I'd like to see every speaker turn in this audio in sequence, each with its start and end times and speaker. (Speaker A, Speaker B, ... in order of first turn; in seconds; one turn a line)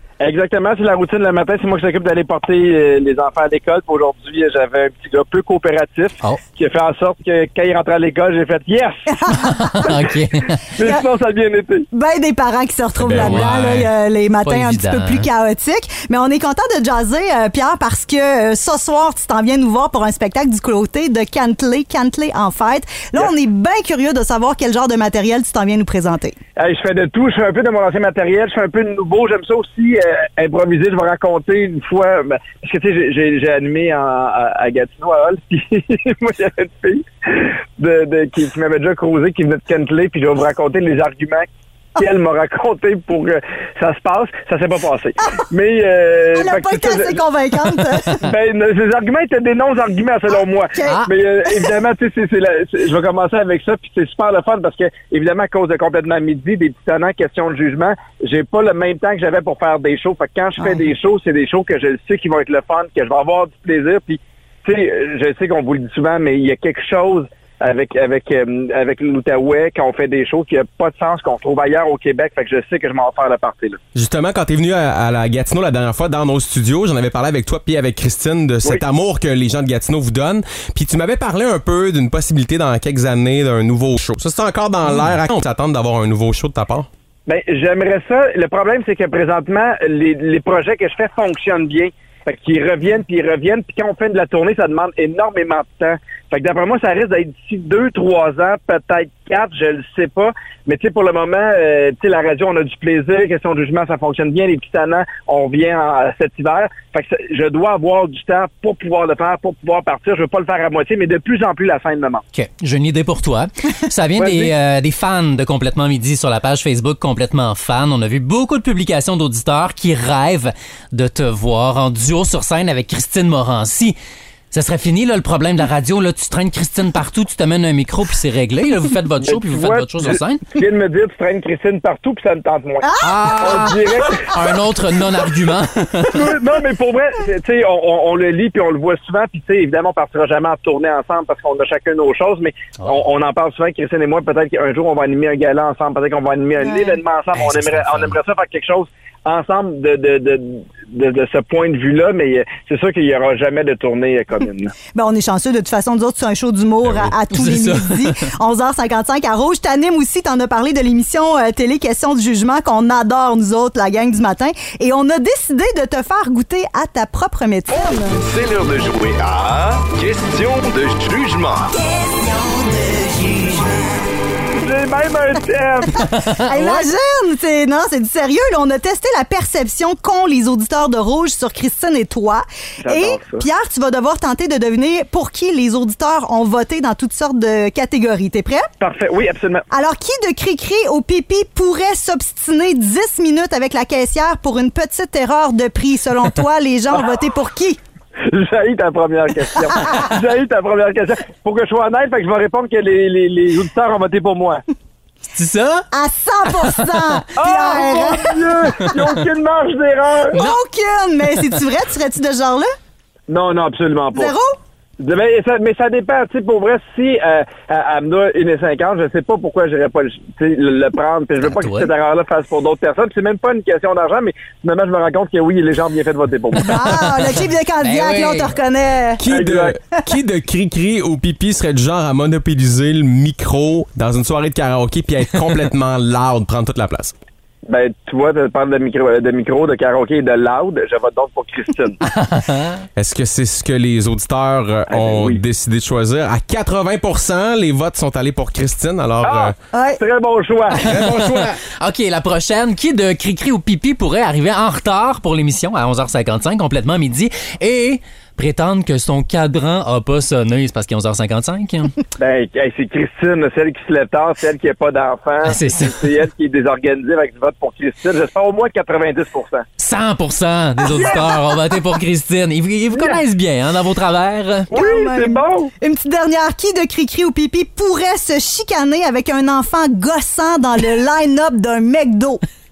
Speaker A: 0.2-9.1
Speaker B: 9.1-10.0
Speaker C: 9.3-10.7
Speaker A: 10.7-11.9
Speaker B: 11.9-26.4
Speaker D: 13.0-13.6
Speaker C: 13.1-13.9
Speaker C: 14.4-15.3
Speaker A: 26.6-41.5
Speaker A: 42.0-47.2
Speaker B: 46.3-48.2
Speaker A: 48.2-73.8
Speaker B: 50.8-51.7
Speaker D: 73.9-86.9
Speaker A: 87.3-112.2
Speaker C: 112.3-124.0
Speaker A: 114.2-114.5
Speaker C: 124.5-130.4
Speaker A: 129.2-134.3
Speaker B: 132.8-133.7
Speaker C: 133.0-136.2
Speaker A: 136.1-154.7
Speaker C: 142.8-143.0
Speaker B: 146.6-147.0
Speaker C: 147.3-148.2
Speaker B: 154.9-168.2
Speaker C: 157.3-158.2
Speaker E: 168.3-171.6
Speaker A: 174.5-176.1
Speaker C: 175.9-176.9
Speaker B: 176.3-188.7
Speaker A: 182.8-183.4
Speaker A: 188.8-189.6
Speaker B: 189.7-197.8
Speaker A: 198.3-204.6
Speaker C: 205.3-205.9
Speaker B: 205.9-208.4
Speaker C: 206.6-207.2
Speaker A: 207.4-210.5
Speaker C: 208.6-209.2
Speaker B: 210.3-212.7
Speaker A: 213.3-214.3
Speaker B: 214.1-214.6
Speaker A: 215.0-226.8
Speaker C: 221.4-221.9
Speaker B: 226.6-229.2
Speaker C: 226.7-228.5
Speaker D: 229.2-237.1
Speaker A: 229.3-229.8
Speaker A: 237.7-242.0
Speaker C: 242.0-242.8
Speaker D: 242.9-249.6
Speaker A: 244.9-245.4
Speaker A: 249.2-250.9
Speaker B: 249.7-250.0
Speaker D: 250.7-251.6
Speaker C: 250.8-261.9
Speaker A: 262.2-269.6
Speaker C: 265.4-266.1
Speaker C: 269.8-274.7
Speaker A: 270.9-271.2
Speaker A: 272.9-273.2
Speaker A: 274.7-275.7
Speaker B: 274.7-282.4